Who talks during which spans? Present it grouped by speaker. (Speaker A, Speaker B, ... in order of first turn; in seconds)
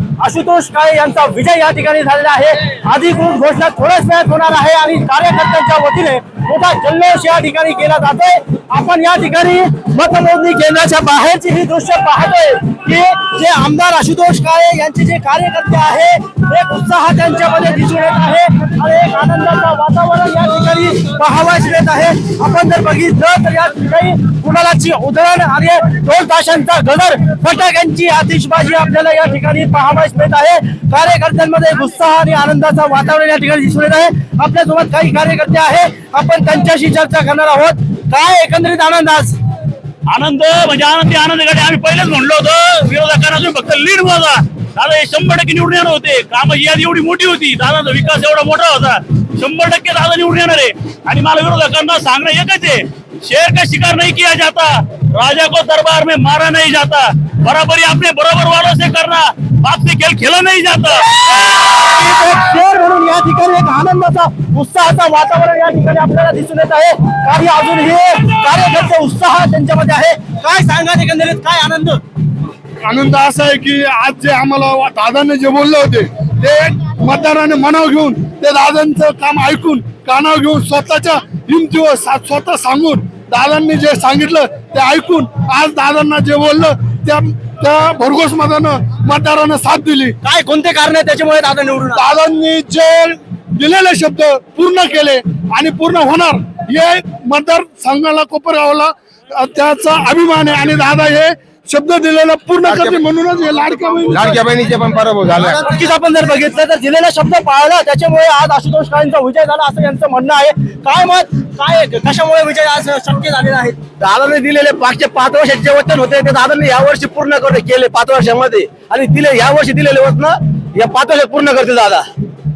Speaker A: 0.2-39.4, 61.7-72.0, 90.2-92.1, 105.6-113.8
Speaker B: 40.1-61.4
Speaker C: 72.8-90.1, 91.9-104.3
Speaker D: 102.6-103.0, 104.1-105.6
Speaker E: 114.0-122.1